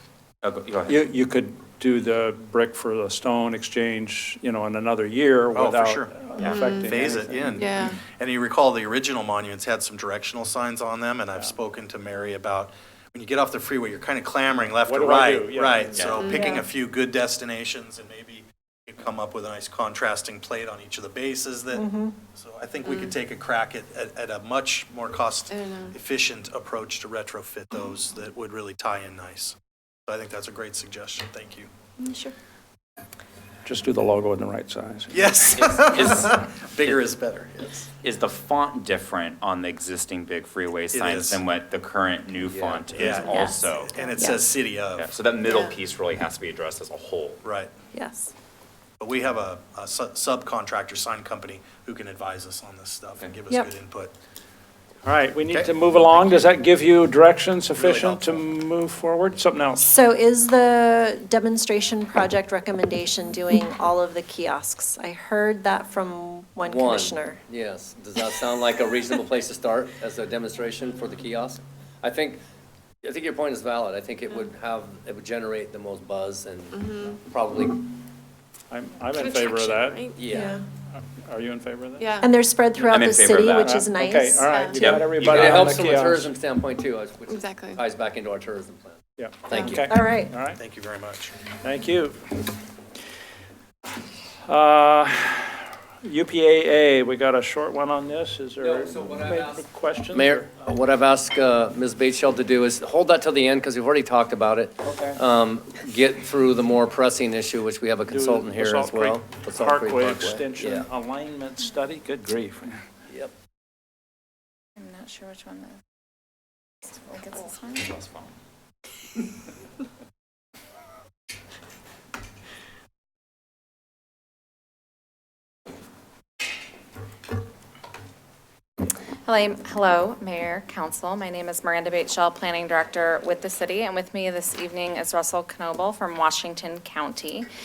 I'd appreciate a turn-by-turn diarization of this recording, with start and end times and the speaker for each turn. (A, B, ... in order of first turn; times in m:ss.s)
0:00.4-0:00.9 A
0:00.6-0:00.9 B
0:00.9-0:07.8 C
0:05.5-0:31.7 D
0:06.5-0:06.9 E
0:07.6-0:08.0 E
0:14.8-0:16.5 C
0:16.0-0:16.2 B
0:16.1-0:16.6 E
0:21.7-0:22.2 F
0:22.8-0:23.1 E
0:25.5-0:26.0 E
0:32.0-0:32.3 E
0:33.6-0:35.7 C
0:35.1-0:37.9 D
0:35.8-0:36.3 B
0:38.0-0:43.9 B
0:38.2-0:41.0 A
0:40.9-0:41.4 D
0:41.5-0:43.0 A
0:42.5-0:43.4 G
0:42.9-0:45.1 D
0:43.0-0:44.4 F
0:45.0-0:46.0 A
0:45.1-0:47.4 B
0:45.4-0:45.7 E
0:46.6-0:46.9 A
0:47.4-0:47.7 D
0:47.9-0:48.3 F
0:49.0-0:54.1 D
0:55.0-0:59.9 C
0:57.8-0:58.2 D
0:57.8-0:58.4 G
0:59.8-1:07.4 F
1:06.6-1:12.4 G
1:13.0-1:17.9 G
1:16.7-1:17.2 E
1:18.7-1:20.1 C
1:19.1-1:20.2 E
1:20.1-1:20.6 G
1:20.3-1:20.6 F
1:20.9-1:22.1 C
1:22.0-1:22.3 E
1:22.2-1:24.6 F
1:22.9-1:23.8 B
1:23.6-1:26.3 C
1:24.5-1:25.0 E
1:24.7-1:25.4 B
1:25.2-1:29.9 G
1:27.3-1:27.8 E
1:29.2-1:30.6 C
1:29.5-1:29.8 E
1:29.9-1:30.3 F
1:30.6-1:31.4 D
1:31.6-1:32.2 C
1:34.5-1:40.5 C
1:38.6-1:50.9 G
1:44.8-1:45.2 C
1:48.1-1:52.8 C
1:54.8-1:55.8 B
1:56.8-1:58.3 B
2:09.3-2:17.4 B